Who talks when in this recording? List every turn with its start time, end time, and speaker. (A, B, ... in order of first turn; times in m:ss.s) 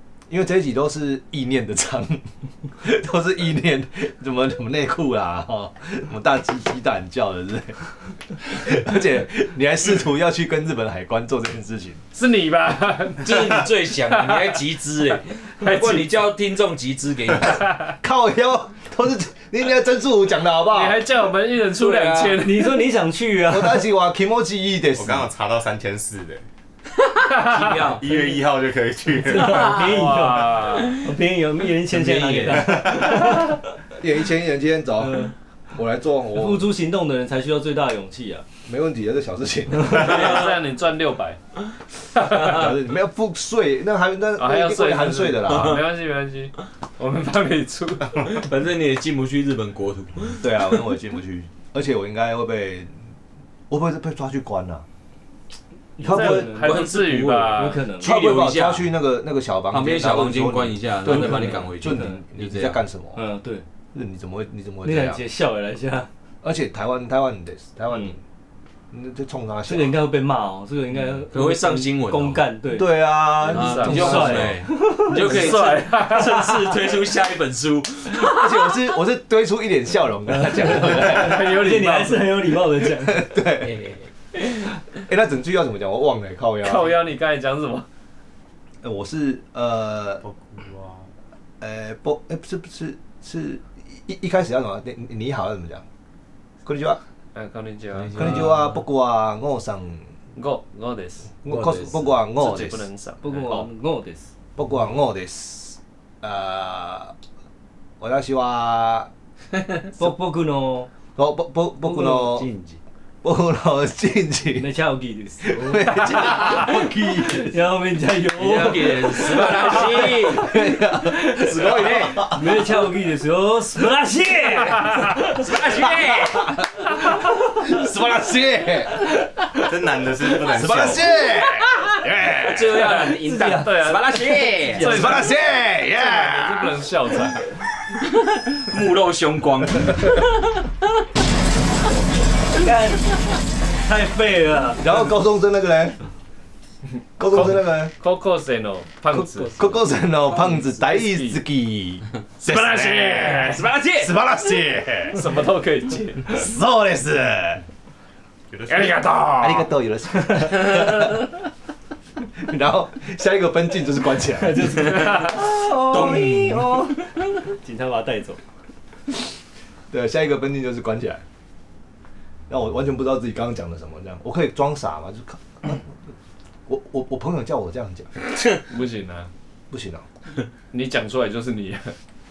0:00.3-0:07.8 A
0:08.4-0:12.0 A
0:12.1-0:14.6 B
0:13.2-0:17.6 C
0:15.2-0:16.1 B
0:17.4-0:17.9 B
0:18.0-0:21.0 A
0:20.7-0:22.9 B
0:21.8-0:22.4 C
0:22.4-0:23.9 D
0:23.5-0:25.3 A
0:25.0-0:26.4 E
0:26.9-0:28.1 C
0:27.3-0:27.9 B
0:27.8-0:30.1 E
0:29.1-0:33.7 D
0:29.5-0:30.0 C
0:29.6-0:31.0 B
0:31.9-0:33.2 C
0:34.0-0:36.7 A
0:35.0-0:35.3 D
0:36.3-0:38.5 D
0:38.7-0:40.5 A
0:39.8-0:41.4 B
0:42.1-0:42.6 B
0:42.3-0:45.8 A
0:44.4-0:48.5 B
0:45.5-0:45.8 C
0:48.1-0:50.5 C
0:50.4-0:53.0 A
0:53.7-0:54.8 A
0:56.0-0:56.8 D
0:56.0-0:56.5 A
0:56.0-0:57.8 B
0:56.2-0:58.9 C
0:57.6-0:58.2 D
0:58.0-1:03.2 A
0:59.7-1:02.8 C
1:01.0-1:02.2 D
1:03.2-1:03.6 D
1:03.9-1:05.2 A
1:04.8-1:06.1 D
1:06.4-1:08.2 A
1:08.9-1:10.0 A
1:09.7-1:15.6 D
1:11.3-1:12.5 C
1:12.7-1:14.4 A
1:13.4-1:18.7 C
1:13.4-1:14.5 B
1:15.0-1:16.6 B
1:18.1-1:21.6 A
1:20.3-1:23.3 D
1:20.8-1:22.4 B
1:23.0-1:23.8 A
1:23.6-1:24.1 C
1:24.9-1:27.0 A
1:26.6-1:27.9 B
1:28.8-1:30.2 A
1:30.2-1:31.1 E
1:31.6-1:35.8 A
1:36.6-1:37.0 A
1:37.4-1:38.3 B
1:37.9-1:38.8 C
1:38.2-1:40.0 A
1:40.4-1:41.4 B
1:41.4-1:42.9 A
1:41.5-1:42.0 C
1:42.3-1:43.2 B
1:43.2-1:44.3 D
1:44.6-1:47.1 A
1:48.0-1:49.1 A
1:49.5-1:49.8 C
1:50.0-1:50.9 D
1:51.2-1:52.5 A
1:52.0-1:52.8 C
1:53.2-1:54.7 A
1:54.6-1:55.6 D
1:55.4-1:57.6 A
1:55.5-1:56.6 C
1:55.9-1:56.6 B
1:57.4-2:00.1 D
1:58.3-2:00.5 C
1:59.5-2:02.5 A
2:01.2-2:02.4 C
2:02.2-2:05.2 D
2:05.3-2:06.6 C
2:05.5-2:09.1 A
2:09.5-2:11.2 E
2:10.3-2:13.0 A
2:12.3-2:15.2 C
2:13.0-2:14.0 D
2:13.5-2:17.5 B
2:14.8-2:16.8 A
2:18.0-2:20.7 C
2:22.6-2:23.1 D
2:23.7-2:24.9 D
2:24.8-2:26.0 A
2:27.2-2:27.9 A
2:27.2-2:29.8 B
2:29.1-2:35.3 A
2:30.5-2:31.4 B
2:32.4-2:33.6 B
2:33.3-2:34.2 C
2:35.1-2:36.4 B
2:36.3-2:37.6 A
2:38.5-2:39.1 E
2:38.7-2:39.6 B
2:39.4-2:41.3 A
2:40.7-2:41.1 C
2:42.4-2:46.9 A
2:44.3-2:45.4 D
2:45.0-2:46.9 C
2:47.6-2:48.4 D
2:49.9-2:51.2 A
2:52.5-2:56.0 A
2:56.7-2:58.1 A
2:58.7-2:59.3 B
2:59.7-3:00.1 A
3:00.7-3:02.0 B